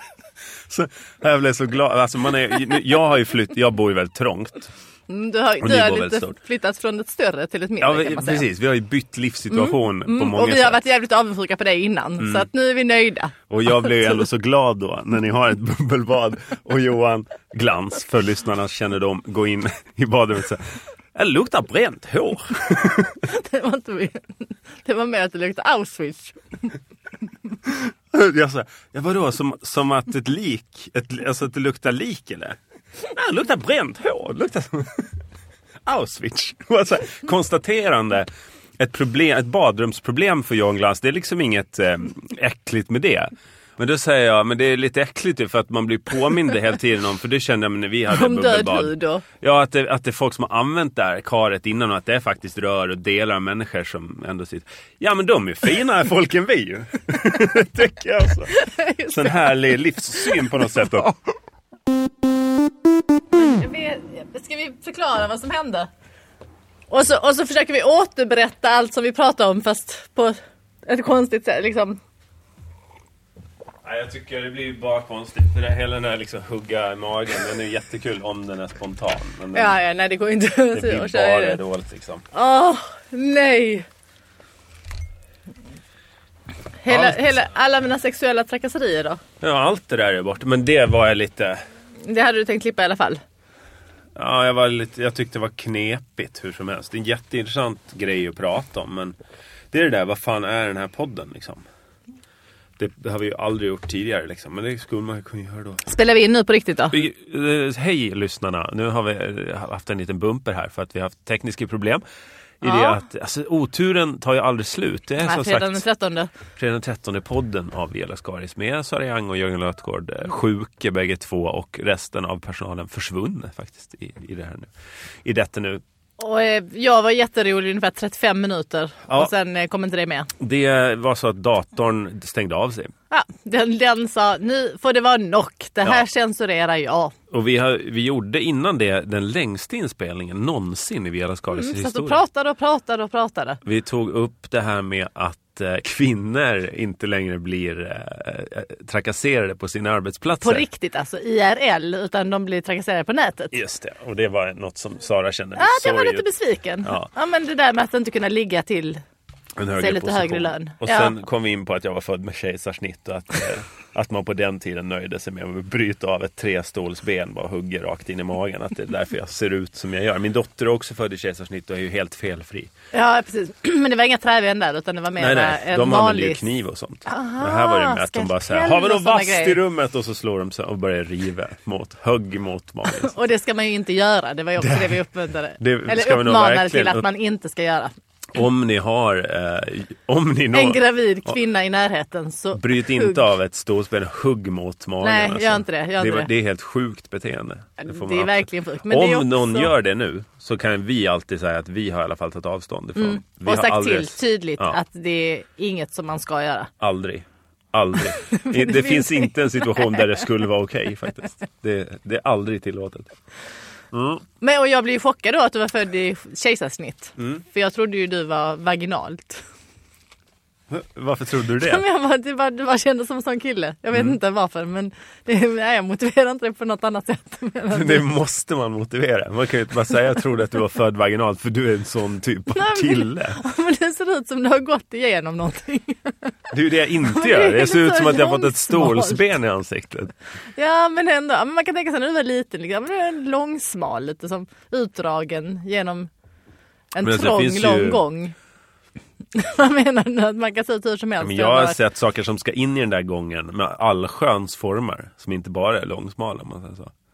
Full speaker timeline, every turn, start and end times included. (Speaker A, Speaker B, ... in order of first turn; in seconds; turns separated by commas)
Speaker A: 0.7-4.7, Speaker B: 5.1-8.4, Speaker A: 5.6-6.3, Speaker A: 7.8-10.8, Speaker B: 9.5-13.3, Speaker A: 12.2-12.5, Speaker A: 13.5-23.2, Speaker B: 23.2-26.7, Speaker A: 27.6-32.6, Speaker A: 33.1-35.1, Speaker A: 35.9-38.3, Speaker A: 38.8-61.1, Speaker B: 48.1-49.2, Speaker B: 58.5-59.4, Speaker B: 63.3-65.9, Speaker B: 66.9-72.0, Speaker A: 73.8-79.8, Speaker B: 79.5-81.6, Speaker A: 80.7-82.2, Speaker B: 82.3-83.8, Speaker B: 86.8-89.2, Speaker A: 86.9-87.2, Speaker A: 89.4-91.6, Speaker B: 92.0-93.2, Speaker A: 94.2-99.2, Speaker A: 99.7-101.6, Speaker A: 102.8-105.8, Speaker B: 105.8-107.0, Speaker A: 106.9-112.0, Speaker A: 112.6-115.8, Speaker B: 112.6-113.0, Speaker B: 115.2-116.3, Speaker A: 116.5-124.7, Speaker A: 125.2-125.8, Speaker B: 126.2-130.3, Speaker A: 130.4-132.9, Speaker B: 133.1-137.1, Speaker A: 137.3-142.2, Speaker B: 141.5-143.6, Speaker A: 143.6-150.6, Speaker B: 150.4-153.5, Speaker A: 153.5-156.2, Speaker B: 155.6-159.0, Speaker A: 159.6-172.7, Speaker B: 159.8-161.1, Speaker B: 172.9-176.4, Speaker A: 175.2-183.1, Speaker B: 177.1-179.6, Speaker B: 182.9-187.9, Speaker A: 184.6-185.1, Speaker A: 185.6-187.0, Speaker A: 188.3-191.3, Speaker B: 190.5-193.3, Speaker A: 192.5-204.8, Speaker B: 195.0-196.3, Speaker B: 197.8-199.7, Speaker B: 202.9-206.7, Speaker A: 206.8-213.1, Speaker B: 208.1-210.2, Speaker A: 213.9-214.2, Speaker B: 214.4-219.4, Speaker A: 220.7-221.8, Speaker B: 221.6-228.1, Speaker A: 227.7-233.4, Speaker B: 232.5-236.3, Speaker A: 236.5-240.1, Speaker B: 237.0-239.2, Speaker B: 240.6-246.1, Speaker B: 246.9-248.3, Speaker A: 247.0-248.0, Speaker B: 249.3-251.8, Speaker A: 251.2-256.9